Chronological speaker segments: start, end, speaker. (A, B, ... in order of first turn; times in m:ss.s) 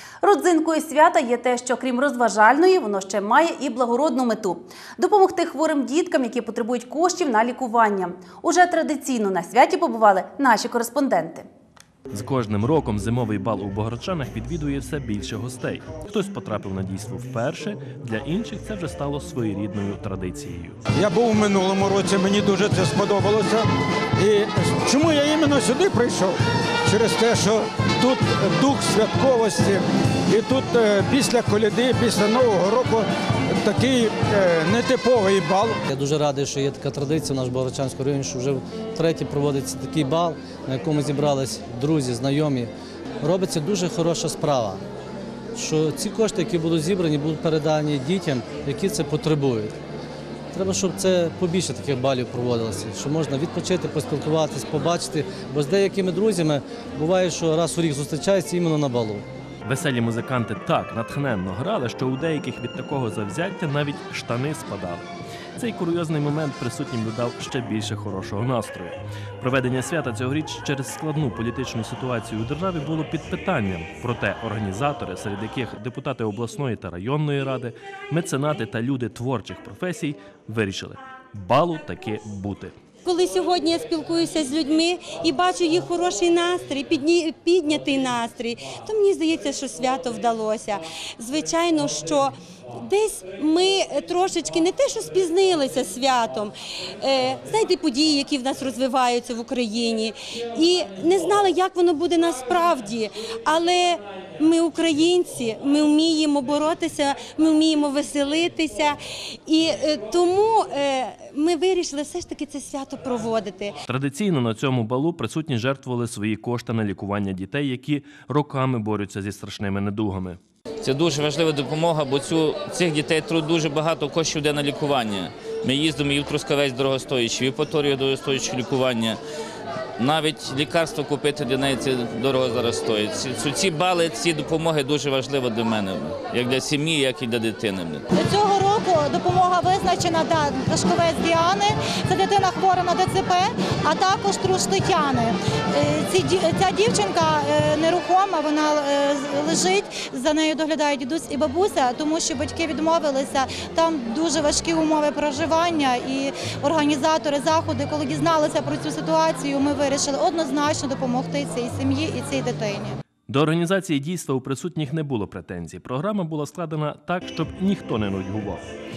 0:00.2-0:11.5 A
0:12.1-0:20.8 B
0:21.0-0:23.7 C
0:24.2-0:35.8 C
0:35.9-0:42.7 D
0:43.2-0:44.8 D
0:45.6-0:49.8 D
0:50.5-0:59.2 D
0:59.6-1:22.8 B
1:23.0-1:53.8 E
1:53.9-2:00.4 B
2:00.8-2:09.2 F
2:10.0-2:18.0 F
2:18.1-2:43.0 G
2:43.3-2:48.6 B